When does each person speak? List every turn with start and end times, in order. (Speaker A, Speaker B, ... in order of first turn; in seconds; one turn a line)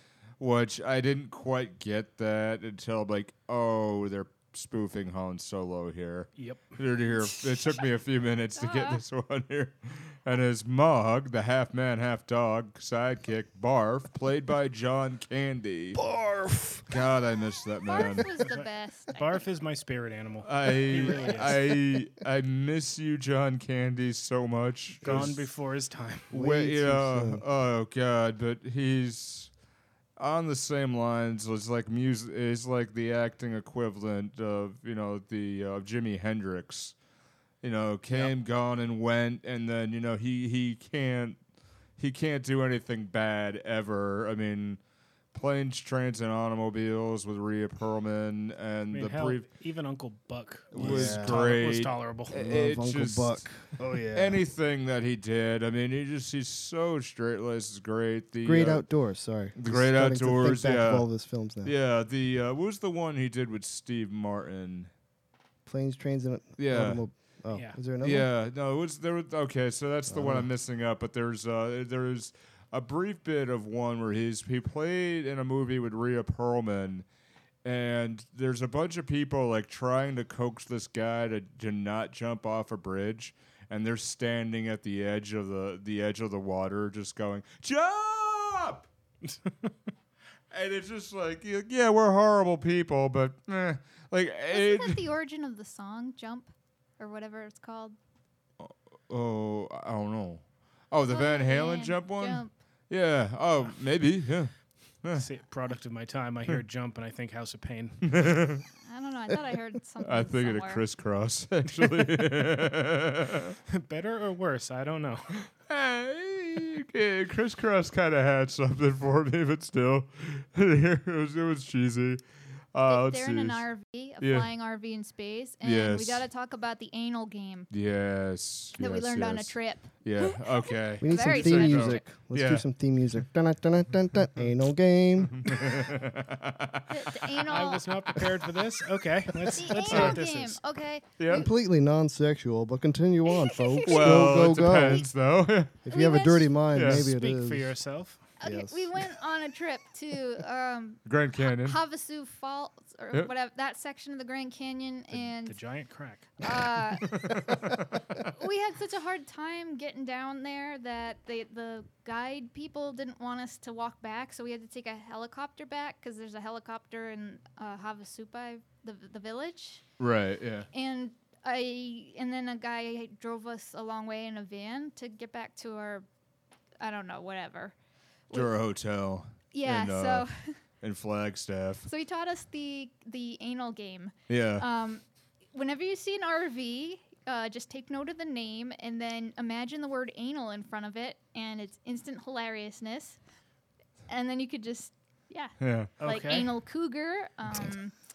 Speaker A: 0.4-16.0
Speaker B: 6.4-6.7
Speaker C: 8.5-9.0
Speaker D: 15.9-16.8
Speaker A: 16.9-18.3
Speaker C: 17.9-19.4
Speaker B: 18.5-21.7
Speaker A: 20.4-25.5
Speaker B: 25.0-26.3
Speaker D: 26.3-27.4
Speaker A: 26.3-29.5
Speaker A: 30.2-36.9
Speaker A: 37.6-41.4
Speaker A: 42.0-44.8
Speaker A: 45.3-49.5
Speaker B: 48.9-52.4
Speaker A: 50.7-53.5
Speaker D: 50.7-51.4
Speaker D: 52.3-54.4
Speaker A: 54.1-58.8
Speaker D: 58.4-61.7
Speaker A: 59.5-61.1
Speaker A: 61.6-64.9
Speaker D: 65.6-68.3
Speaker A: 66.6-67.0
Speaker B: 67.5-67.8
Speaker A: 68.0-77.0
Speaker D: 70.1-70.5
Speaker A: 77.6-88.9
Speaker B: 89.2-89.7
Speaker A: 90.5-95.1
Speaker C: 94.5-98.0
Speaker A: 98.6-104.5
Speaker C: 101.1-102.5
Speaker B: 105.2-108.1
Speaker A: 108.0-108.6
Speaker C: 108.8-110.8
Speaker A: 110.0-113.5
Speaker B: 113.7-115.3
Speaker A: 115.7-122.2
Speaker A: 122.7-123.6
Speaker C: 122.9-127.7
Speaker A: 124.2-124.5
Speaker A: 125.6-126.2
Speaker A: 127.7-132.6
Speaker C: 128.8-132.1
Speaker D: 131.0-135.6
Speaker A: 135.3-136.9
Speaker C: 136.9-137.8
Speaker B: 137.4-140.6
Speaker C: 139.6-141.5
Speaker A: 139.9-140.2
Speaker A: 141.2-141.5
Speaker D: 141.3-145.1
Speaker C: 143.3-145.0
Speaker A: 143.8-145.8
Speaker D: 145.8-147.8
Speaker C: 145.9-146.5
Speaker A: 146.7-147.1
Speaker B: 146.9-148.2
Speaker D: 148.4-149.0
Speaker C: 148.4-155.6
Speaker A: 151.1-151.8
Speaker B: 155.4-156.3
Speaker C: 156.4-157.1
Speaker A: 157.1-157.4
Speaker C: 158.3-169.8
Speaker A: 170.0-170.7
Speaker C: 170.7-176.1
Speaker C: 176.8-177.7
Speaker A: 178.3-180.3
Speaker C: 179.5-180.6
Speaker A: 180.8-181.9
Speaker C: 181.8-193.2
Speaker A: 184.3-184.6
Speaker C: 194.1-197.9
Speaker A: 195.6-195.9
Speaker B: 196.0-196.5